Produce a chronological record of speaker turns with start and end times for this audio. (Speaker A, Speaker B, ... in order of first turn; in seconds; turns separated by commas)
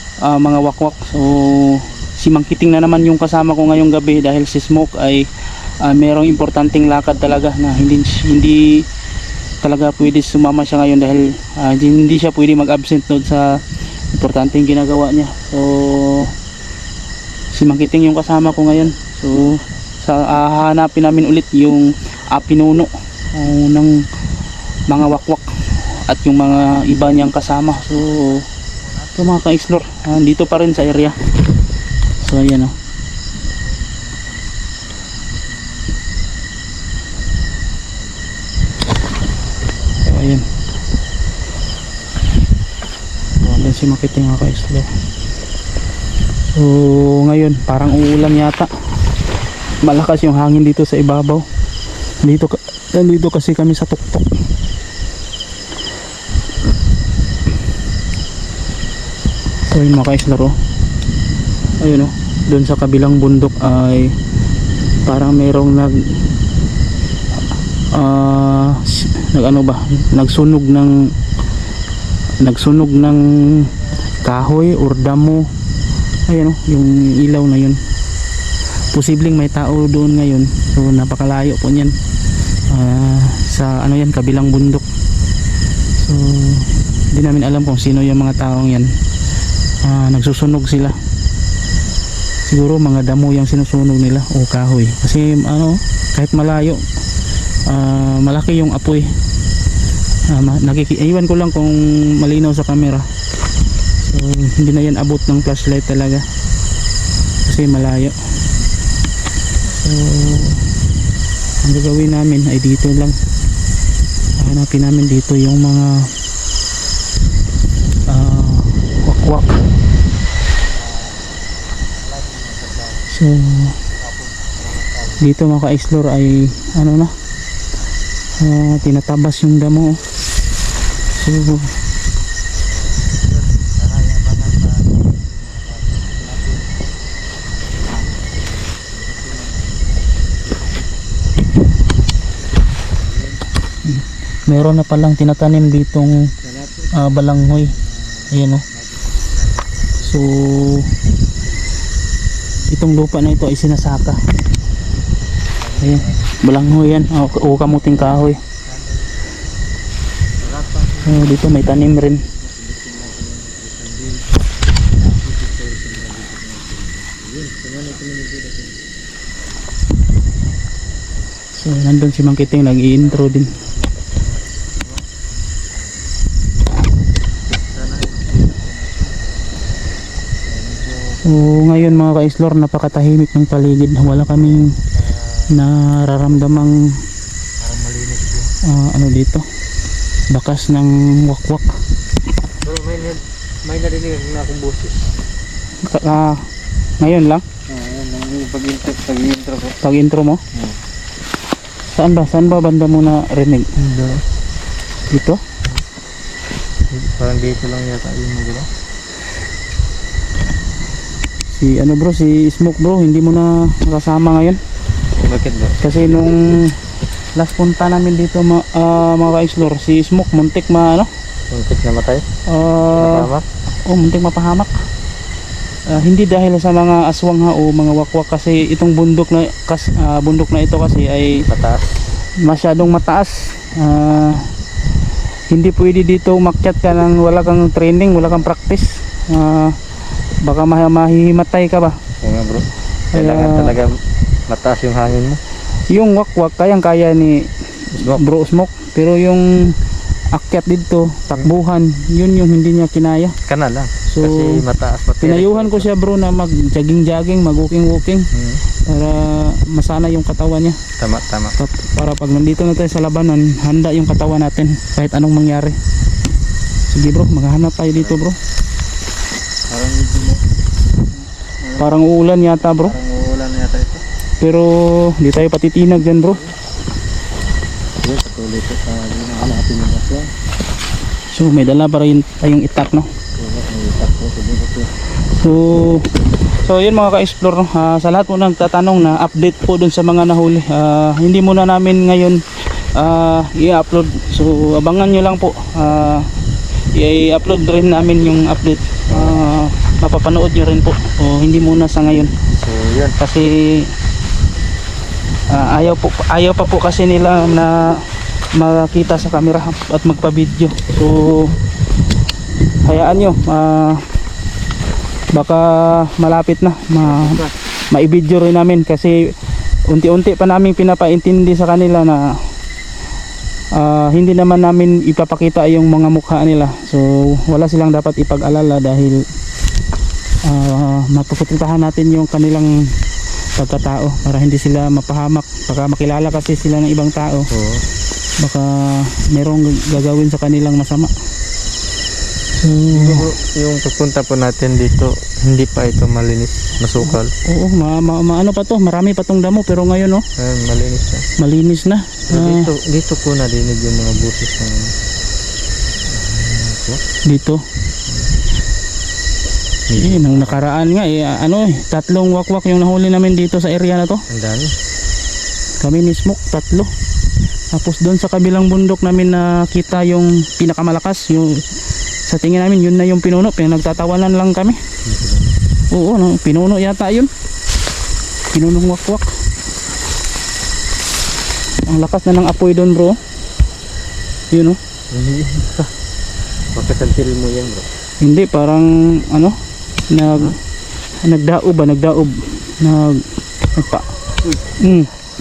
Speaker A: 0.2-5.3, Speaker A: 5.8-8.8, Speaker A: 9.6-16.3, Speaker A: 17.5-24.1, Speaker A: 24.9-28.4, Speaker B: 27.7-29.1, Speaker A: 29.1-31.2, Speaker A: 32.2-32.7, Speaker B: 33.7-34.3, Speaker B: 35.3-36.2, Speaker B: 37.9-38.4, Speaker A: 40.0-40.5, Speaker A: 43.4-44.9, Speaker A: 46.5-48.7, Speaker A: 49.8-51.4, Speaker A: 52.2-54.3, Speaker A: 59.6-60.6, Speaker A: 61.8-64.2, Speaker A: 65.0-66.1, Speaker A: 67.9-71.1, Speaker A: 72.4-75.5, Speaker A: 76.3-77.8, Speaker A: 78.9-81.9, Speaker A: 82.7-84.8, Speaker A: 86.0-88.9, Speaker A: 89.8-91.0, Speaker A: 92.5-96.8, Speaker A: 97.7-99.1, Speaker A: 100.3-103.1, Speaker A: 104.0-106.2, Speaker A: 107.5-108.2, Speaker A: 109.7-110.6, Speaker A: 111.6-113.2, Speaker A: 114.4-116.1, Speaker A: 118.1-119.6, Speaker B: 120.8-121.2, Speaker B: 121.9-123.1, Speaker A: 123.1-123.8, Speaker B: 123.9-125.2, Speaker A: 125.2-127.1, Speaker A: 128.4-130.0, Speaker A: 131.1-131.7, Speaker B: 132.5-136.8, Speaker B: 137.5-140.9, Speaker B: 142.9-143.4, Speaker A: 143.8-146.3, Speaker B: 146.4-150.2, Speaker A: 146.9-147.7, Speaker A: 148.3-148.6, Speaker A: 150.0-150.9, Speaker A: 152.7-154.2, Speaker B: 155.6-156.4, Speaker A: 155.8-158.4, Speaker B: 157.7-159.2, Speaker B: 160.3-161.5, Speaker A: 161.0-162.2, Speaker B: 162.1-168.8, Speaker A: 171.6-173.5, Speaker B: 172.1-176.0, Speaker B: 177.5-179.7, Speaker B: 180.4-181.2, Speaker A: 181.2-184.8, Speaker B: 184.9-185.5, Speaker A: 185.5-186.9, Speaker B: 187.6-188.5, Speaker A: 188.6-189.4, Speaker A: 190.3-191.8, Speaker B: 192.6-195.0, Speaker A: 195.8-196.4, Speaker A: 197.0-197.4, Speaker B: 197.7-199.8, Speaker A: 199.8-200.4, Speaker B: 200.5-200.8, Speaker A: 201.9-203.7, Speaker B: 203.8-204.2, Speaker A: 205.1-205.4, Speaker B: 206.9-208.7, Speaker A: 211.5-214.6, Speaker B: 215.2-215.8, Speaker A: 215.8-216.8, Speaker A: 217.3-221.1, Speaker B: 221.5-222.2, Speaker A: 222.5-223.3, Speaker B: 222.9-223.4, Speaker A: 223.8-224.7, Speaker A: 225.9-231.4, Speaker B: 231.4-231.9, Speaker A: 232.4-234.5, Speaker A: 235.5-239.8, Speaker A: 240.4-242.0, Speaker B: 242.2-245.4, Speaker A: 243.1-243.8, Speaker A: 245.9-249.8, Speaker B: 247.9-248.3, Speaker A: 250.3-253.3, Speaker B: 253.4-255.9, Speaker A: 254.1-254.6, Speaker A: 255.2-258.3, Speaker B: 258.3-258.6, Speaker A: 258.9-260.8, Speaker B: 261.0-261.5, Speaker A: 261.6-265.8, Speaker A: 266.9-268.4, Speaker B: 267.9-268.2, Speaker B: 269.7-270.5, Speaker B: 271.6-272.0, Speaker A: 271.8-272.9, Speaker B: 272.8-274.0, Speaker A: 274.4-276.4, Speaker B: 276.2-276.5, Speaker B: 278.0-280.3, Speaker A: 281.3-283.1, Speaker B: 283.4-284.9, Speaker A: 285.3-286.1, Speaker A: 286.6-296.3, Speaker A: 296.9-302.3, Speaker B: 299.1-299.4, Speaker B: 302.4-303.2, Speaker A: 303.2-303.9, Speaker A: 305.5-311.6, Speaker A: 312.8-314.1, Speaker A: 315.3-319.3, Speaker B: 317.0-317.5, Speaker A: 319.9-322.3, Speaker A: 323.7-329.2, Speaker A: 330.4-332.9, Speaker A: 333.6-337.5, Speaker B: 337.5-337.8, Speaker A: 338.4-341.1, Speaker A: 342.6-343.3, Speaker B: 342.9-347.3, Speaker A: 347.0-350.2, Speaker B: 350.4-351.2, Speaker A: 351.4-352.7, Speaker B: 352.3-354.9, Speaker B: 356.1-357.0, Speaker A: 357.2-357.6, Speaker B: 358.1-358.4, Speaker B: 359.9-360.6, Speaker A: 359.9-364.2, Speaker B: 364.3-364.7, Speaker A: 365.8-366.9, Speaker A: 367.7-371.6, Speaker A: 372.3-374.8, Speaker B: 375.0-375.6, Speaker A: 375.9-377.3, Speaker A: 378.5-379.3, Speaker A: 381.9-383.2, Speaker A: 384.5-384.8, Speaker B: 385.1-385.9, Speaker B: 386.7-387.9, Speaker A: 388.2-389.6, Speaker A: 390.1-390.6, Speaker A: 391.2-394.1, Speaker A: 394.8-395.1